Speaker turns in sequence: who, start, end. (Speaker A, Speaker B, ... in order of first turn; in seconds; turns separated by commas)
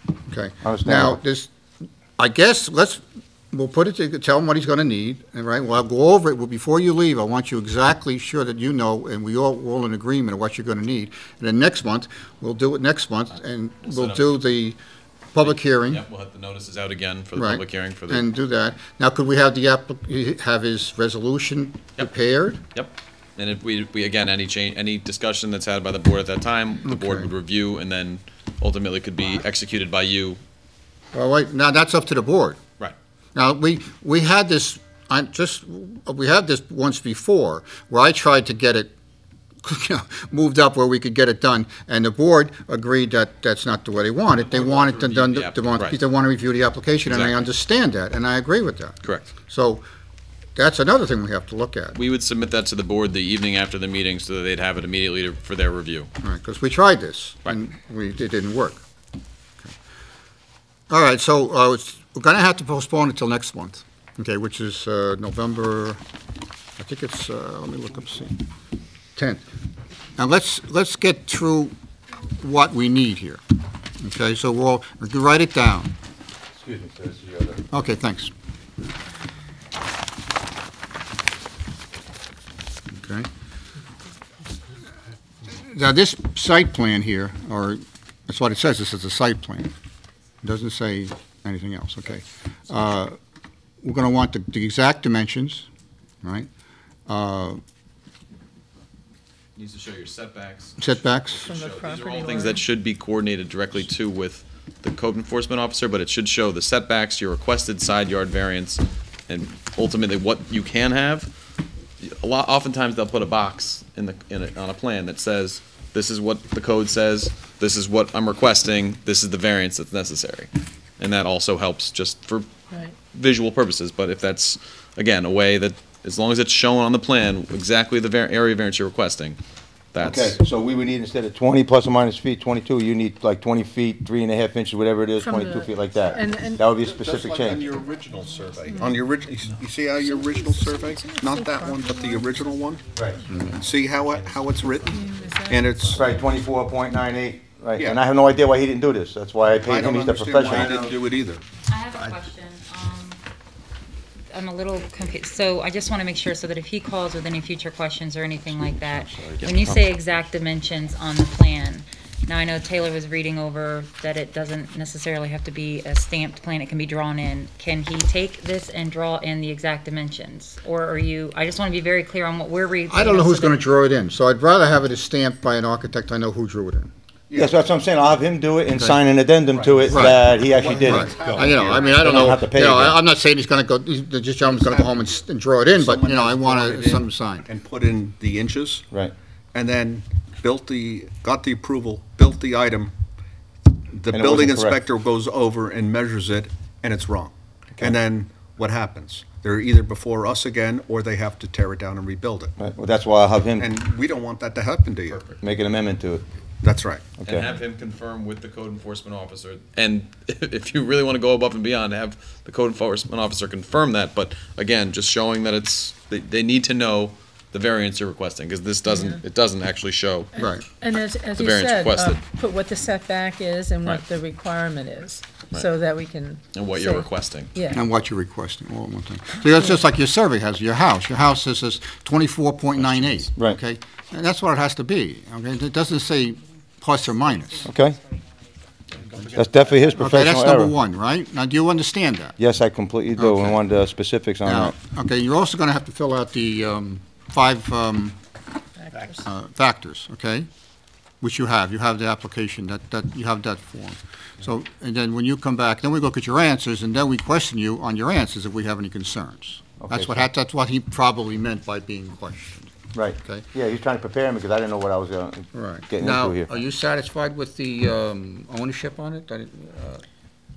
Speaker A: 0.3-1.5, Speaker B: 0.6-1.2, Speaker A: 2.2-14.8, Speaker C: 13.8-14.3, Speaker A: 15.3-16.0, Speaker C: 15.4-18.3, Speaker A: 17.3-22.6, Speaker C: 22.7-30.4, Speaker A: 26.9-27.3, Speaker A: 31.1-32.6, Speaker A: 33.4-38.9, Speaker A: 39.6-49.8, Speaker C: 44.4-46.0, Speaker C: 47.0-47.4, Speaker A: 50.5-52.0, Speaker C: 51.9-56.1, Speaker A: 56.2-58.8, Speaker A: 60.9-66.0, Speaker A: 66.8-68.4, Speaker A: 69.2-69.4, Speaker A: 70.2-71.7, Speaker A: 72.4-73.4, Speaker A: 74.0-75.9, Speaker B: 76.5-77.6, Speaker A: 77.7-78.3, Speaker A: 83.0-83.3, Speaker A: 85.5-89.7, Speaker A: 90.4-93.2, Speaker A: 93.8-95.7, Speaker A: 96.2-96.5, Speaker A: 97.1-97.6, Speaker C: 99.5-111.3, Speaker A: 100.8-101.5, Speaker D: 101.4-102.6, Speaker C: 112.0-122.5, Speaker C: 123.1-129.4, Speaker C: 129.9-130.4, Speaker B: 130.0-137.7, Speaker D: 135.2-136.6, Speaker E: 136.6-142.8, Speaker D: 138.7-138.9, Speaker D: 140.0-142.3, Speaker F: 142.0-143.0, Speaker A: 143.3-143.6, Speaker E: 143.5-146.5, Speaker C: 143.8-146.2, Speaker D: 144.9-145.7, Speaker B: 145.9-151.0, Speaker E: 149.5-151.4, Speaker F: 151.7-153.2, Speaker F: 154.3-173.6, Speaker B: 158.6-159.4, Speaker C: 159.3-159.8, Speaker A: 172.9-176.9, Speaker E: 177.3-177.6, Speaker B: 177.3-183.0, Speaker E: 179.4-182.3, Speaker A: 179.9-180.3, Speaker A: 180.8-187.5, Speaker E: 184.4-185.1, Speaker E: 185.7-188.9, Speaker E: 189.5-192.9, Speaker E: 193.9-202.6, Speaker B: 194.1-194.8, Speaker B: 202.6-203.7, Speaker E: 203.6-205.4, Speaker B: 205.4-206.2, Speaker E: 206.6-207.1, Speaker B: 207.2-207.5, Speaker C: 207.2-220.3, Speaker D: 218.9-219.2, Speaker D: 220.4-227.8, Speaker A: 220.4-220.6, Speaker C: 221.3-222.2, Speaker C: 226.5-227.5, Speaker A: 227.7-237.7, Speaker F: 237.0-238.7, Speaker B: 237.6-238.0, Speaker B: 239.3-240.7, Speaker A: 239.9-242.4, Speaker B: 242.4-244.8, Speaker A: 243.2-243.6, Speaker A: 244.4-248.2, Speaker D: 248.8-249.2, Speaker A: 249.2-250.5, Speaker A: 251.2-263.4, Speaker B: 259.8-260.2, Speaker B: 262.9-266.5, Speaker A: 265.5-270.0